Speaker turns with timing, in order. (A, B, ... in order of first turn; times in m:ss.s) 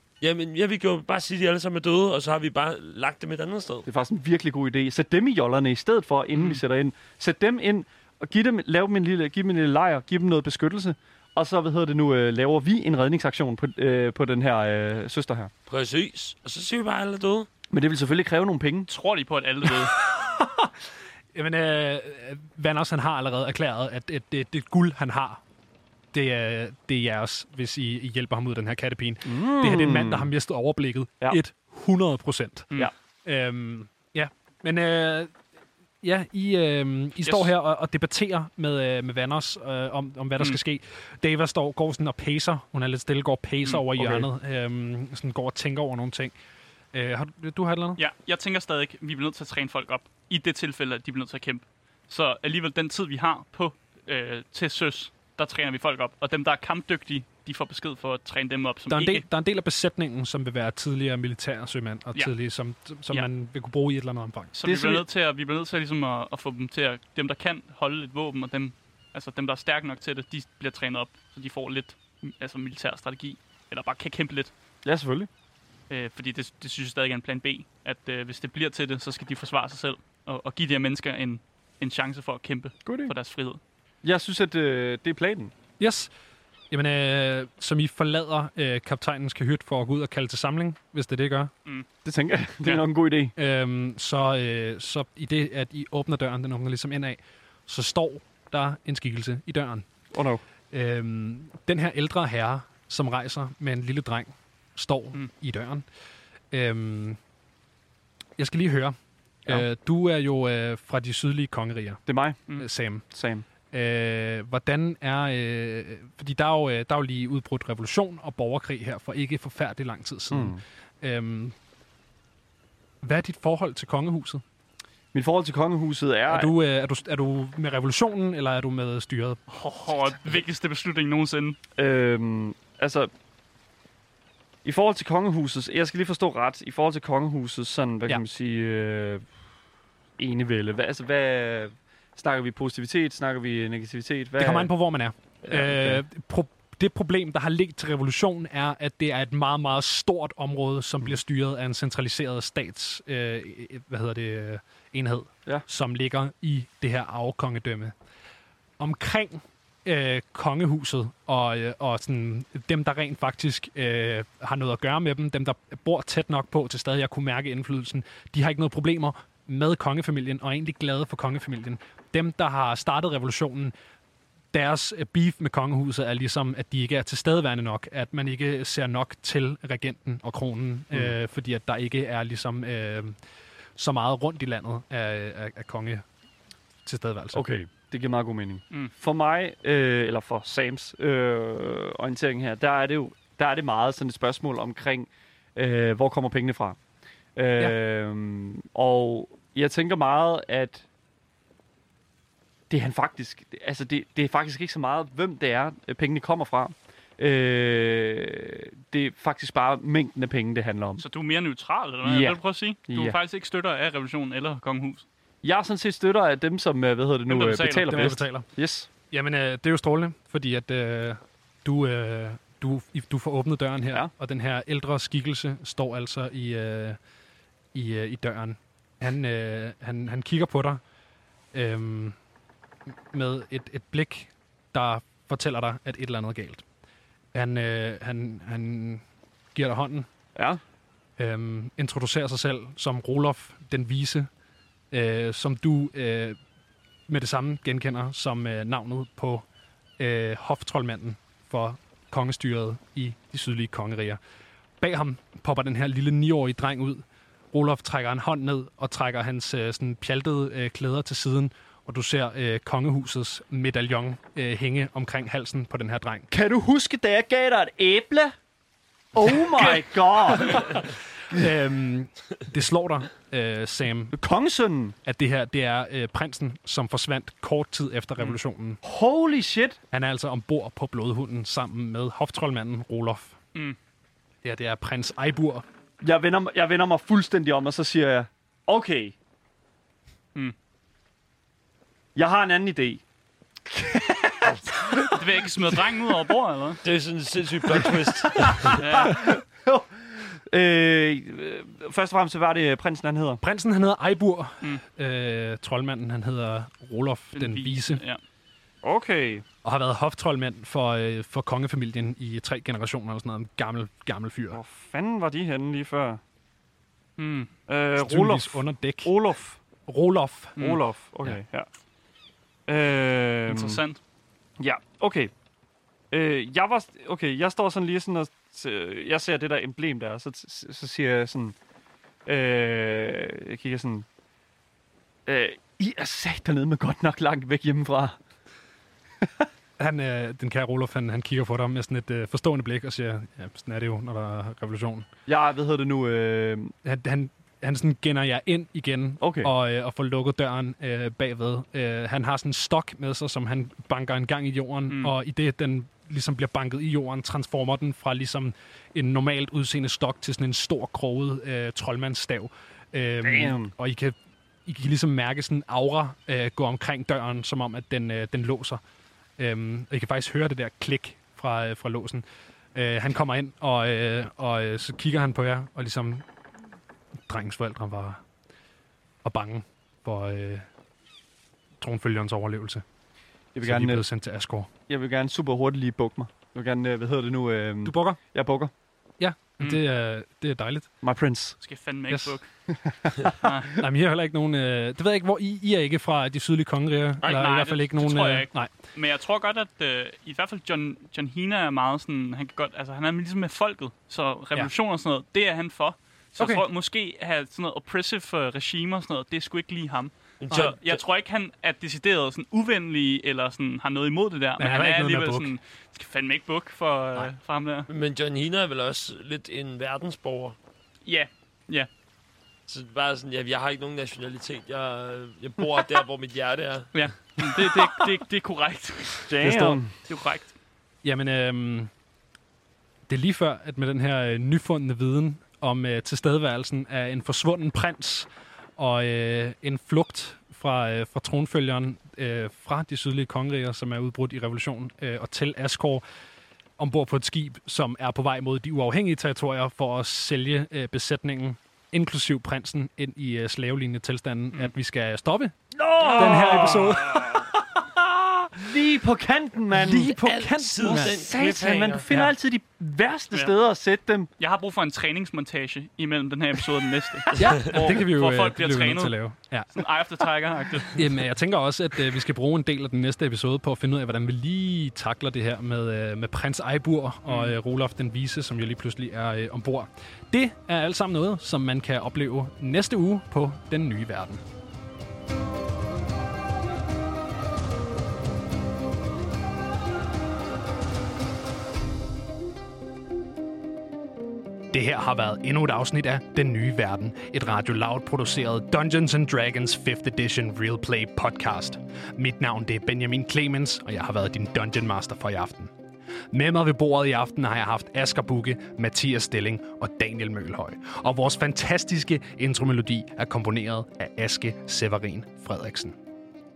0:00.2-0:03.9 A
0:03.8-0:15.5 B
0:06.3-0:06.6 C
0:15.7-0:17.5 A
0:17.7-0:18.9 B
0:18.9-0:19.9 C
0:21.3-0:25.4 D
0:26.1-0:32.7 D
0:29.2-0:30.3 B
0:33.2-0:35.3 D
0:36.0-0:46.3 D
0:44.0-0:44.3 B
0:46.9-0:48.0 D
0:48.0-0:59.2 C
0:58.9-1:04.6 D
1:04.5-1:14.5 C
1:04.6-1:05.0 B
1:14.8-1:15.3 B
1:15.9-1:23.6 C
1:22.8-1:23.1 B
1:24.0-1:25.5 B
1:25.8-1:26.1 D
1:26.7-1:31.5 D
1:32.0-1:33.3 B
1:33.4-1:39.9 D
1:40.1-1:40.4 B
1:40.7-1:45.8 D
1:46.5-1:47.2 D
1:48.4-1:52.0 D
1:52.1-1:52.4 B
1:52.6-1:53.0 D
1:53.1-1:53.4 B
1:53.7-2:01.5 D
2:00.3-2:00.6 B
2:03.0-2:04.4 D
2:05.1-2:06.5 B
2:06.3-2:09.4 D
2:09.5-2:11.6 C
2:11.8-2:13.1 B
2:14.6-2:19.3 B
2:20.2-2:24.7 B
2:24.4-2:37.9 D
2:25.4-2:26.0 B
2:38.8-2:53.7 D
2:54.5-3:03.2 D
3:03.8-3:06.0 D
3:06.8-3:07.4 D
3:07.3-3:16.8 B
3:17.4-3:20.8 B
3:22.7-3:31.0 B
3:31.0-3:35.0 C
3:32.0-3:33.2 B
3:35.4-3:38.9 B
3:37.3-3:38.2 C
3:37.8-3:38.4 D
3:39.1-3:47.0 D
3:47.7-3:50.8 D
3:51.5-3:52.2 D
3:53.1-3:56.6 D
3:57.3-4:00.1 D
4:00.3-4:00.6 B
4:01.2-4:04.3 D
4:04.9-4:06.4 D
4:07.1-4:09.4 D
4:10.0-4:14.2 D
4:14.8-4:26.3 D
4:26.3-4:28.3 B
4:29.1-4:31.5 B
4:31.3-4:34.1 D
4:34.1-4:35.0 B
4:35.0-4:38.8 D
4:38.8-4:39.8 B
4:39.9-4:43.4 D
4:44.4-4:45.6 D
4:46.0-4:49.2 B
4:52.2-4:53.0 B
4:53.6-4:56.1 B
4:55.0-4:56.8 C
4:56.8-4:58.8 A
4:57.7-5:03.4 B
4:58.7-4:59.2 C
5:03.4-5:08.0 D
5:07.3-5:08.2 C
5:08.8-5:09.4 B
5:09.6-5:14.6 D
5:14.5-5:16.2 B
5:17.2-5:17.5 C
5:17.7-5:19.6 B
5:17.9-5:19.1 D
5:19.8-5:20.6 D
5:20.6-5:21.7 B
5:22.7-5:23.8 B
5:23.5-5:24.0 C
5:24.6-5:25.3 B
5:26.1-5:31.6 B
5:32.2-5:34.0 B
5:35.2-5:38.2 B
5:39.2-5:39.5 B
5:39.8-5:45.1 D
5:45.3-5:46.7 B
5:46.8-6:04.1 D
5:49.2-5:49.5 B
6:03.2-6:03.7 B
6:04.6-6:08.8 D
6:09.4-6:12.2 D
6:12.7-6:16.2 D
6:17.3-6:18.2 D
6:19.2-6:20.7 D
6:21.8-6:22.8 D
6:23.5-6:24.0 B
6:23.6-6:24.7 D
6:24.9-6:28.7 B
6:27.8-6:28.2 D
6:29.2-6:30.9 D
6:31.0-6:31.6 B
6:31.6-6:32.5 C
6:32.1-6:32.4 D
6:32.7-6:33.5 B
6:33.4-6:33.7 C
6:33.8-6:38.7 D
6:37.2-6:57.9 C
6:46.4-6:46.6 D
6:50.4-6:51.0 A
6:50.5-6:50.8 D
6:54.6-6:55.5 D
6:57.9-7:00.6 A
7:01.0-7:01.9 C
7:02.7-7:06.9 A
7:06.9-7:10.5 C
7:09.3-7:09.9 B
7:09.4-7:09.8 D
7:11.0-7:11.9 D
7:13.1-7:26.0 D
7:26.8-7:35.5 D
7:35.7-7:40.1 B
7:36.0-7:37.4 A
7:36.2-7:37.4 D
7:39.7-7:41.2 D
7:40.0-7:42.1 A
7:40.8-7:44.3 B
7:44.4-7:49.1 C
7:47.3-7:49.8 D
7:49.7-7:51.0 C
7:50.9-8:04.4 D
7:57.3-7:57.6 C
8:14.7-8:25.7 D
8:26.3-8:36.0 D